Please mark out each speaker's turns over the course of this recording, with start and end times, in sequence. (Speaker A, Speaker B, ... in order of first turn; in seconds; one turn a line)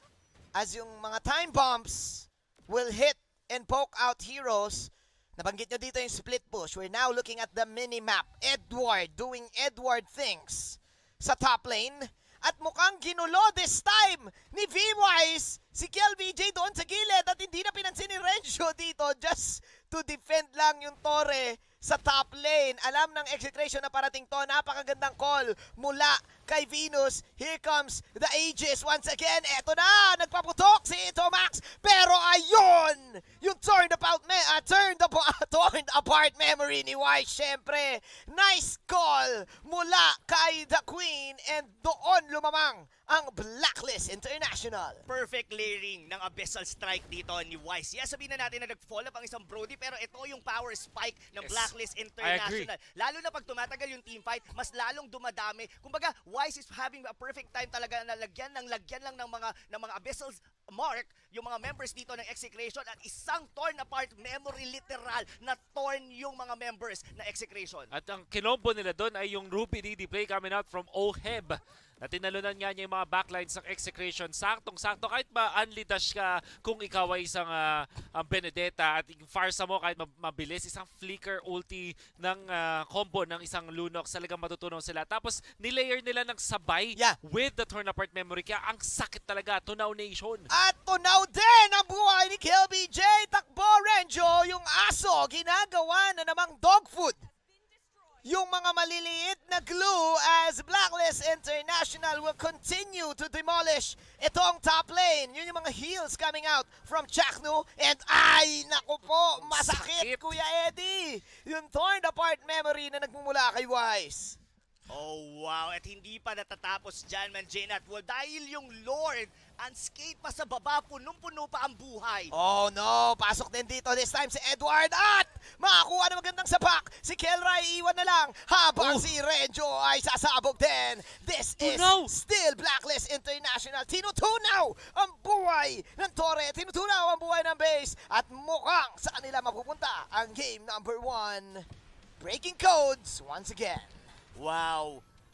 Speaker A: 0.5-45.0
Speaker B: 45.1-67.9
Speaker C: 51.4-52.7
Speaker C: 67.9-90.5
Speaker A: 90.5-97.2
Speaker A: 98.2-114.4
Speaker C: 109.3-110.3
Speaker B: 114.9-122.3
Speaker A: 122.3-141.7
Speaker C: 128.8-129.1
Speaker C: 131.6-132.1
Speaker A: 142.2-144.1
Speaker B: 144.3-145.0